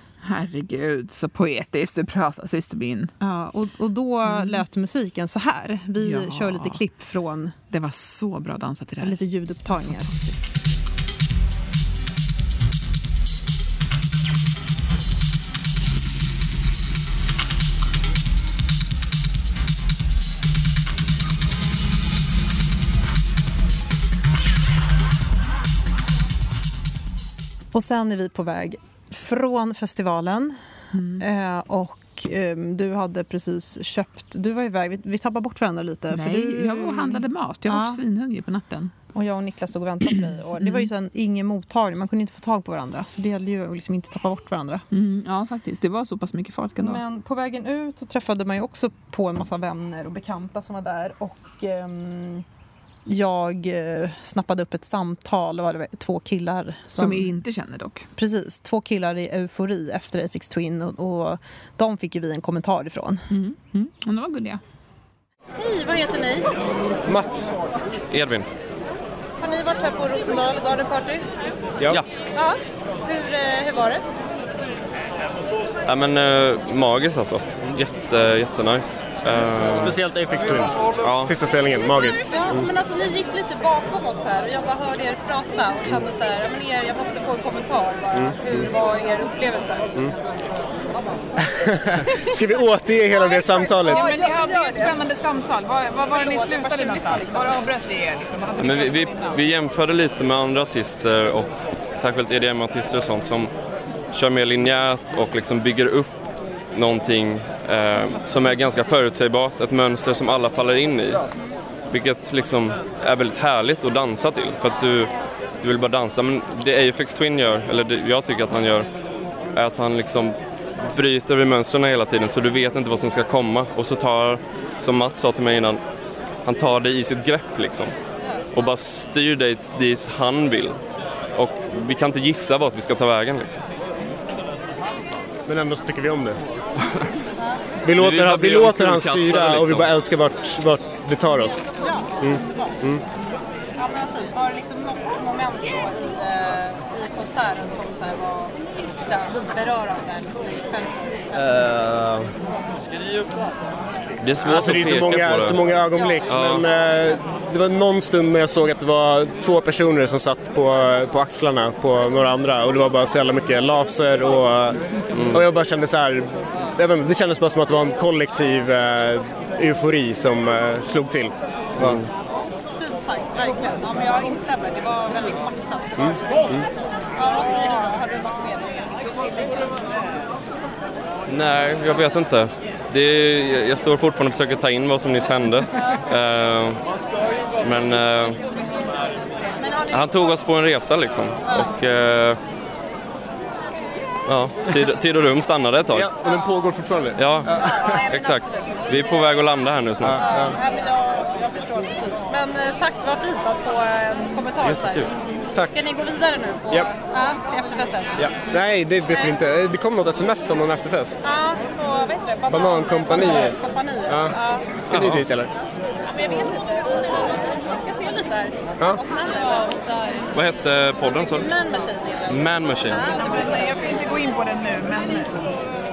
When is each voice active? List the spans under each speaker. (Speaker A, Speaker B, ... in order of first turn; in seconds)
Speaker A: 0.2-3.1, 4.2-4.6, 6.0-6.8, 7.7-10.4, 30.9-31.2, 36.1-38.9, 40.6-40.9, 44.9-47.0, 56.9-58.1, 63.3-64.6
Speaker B: 3.2-7.5, 9.0-10.1, 27.7-30.6, 31.2-38.0, 39.1-44.8, 46.8-52.4, 53.0-57.3, 58.1-63.3
Speaker C: 65.5-66.5, 69.4-71.2, 72.3-74.0, 81.7-89.9, 93.1-95.0, 96.1-97.6, 137.4-137.6, 141.6-142.8, 143.8-151.6, 172.7-176.5, 177.1-179.8, 189.4-190.4, 191.5-191.7, 196.2-196.5, 197.4-199.4, 200.2-208.3, 211.2-214.8, 216.1-220.2, 221.4-223.7
Speaker D: 67.0-67.6, 79.3-82.7, 88.2-88.6, 91.5-94.0, 135.4-136.4, 137.8-143.0, 151.4-152.3, 154.4-172.0, 176.0-176.6, 195.9-197.9, 200.0-200.6, 208.2-211.2, 212.5-215.5
Speaker E: 68.1-68.5, 75.8-80.0, 81.0-81.3, 98.6-103.5, 104.1-106.2, 106.7-111.2, 111.9-118.9, 119.5-125.8, 126.4-127.9, 128.5-130.8, 131.3-133.6, 137.9-139.9, 154.2-155.6, 156.3-156.6, 165.1-165.4, 171.8-172.1, 181.3-186.8, 187.6-188.4, 189.9-192.4, 194.2-196.1, 197.2-197.5, 198.1-200.2, 214.8-215.2, 220.3-221.5, 222.3-223.1
Speaker F: 93.8-99.4, 223.1-225.4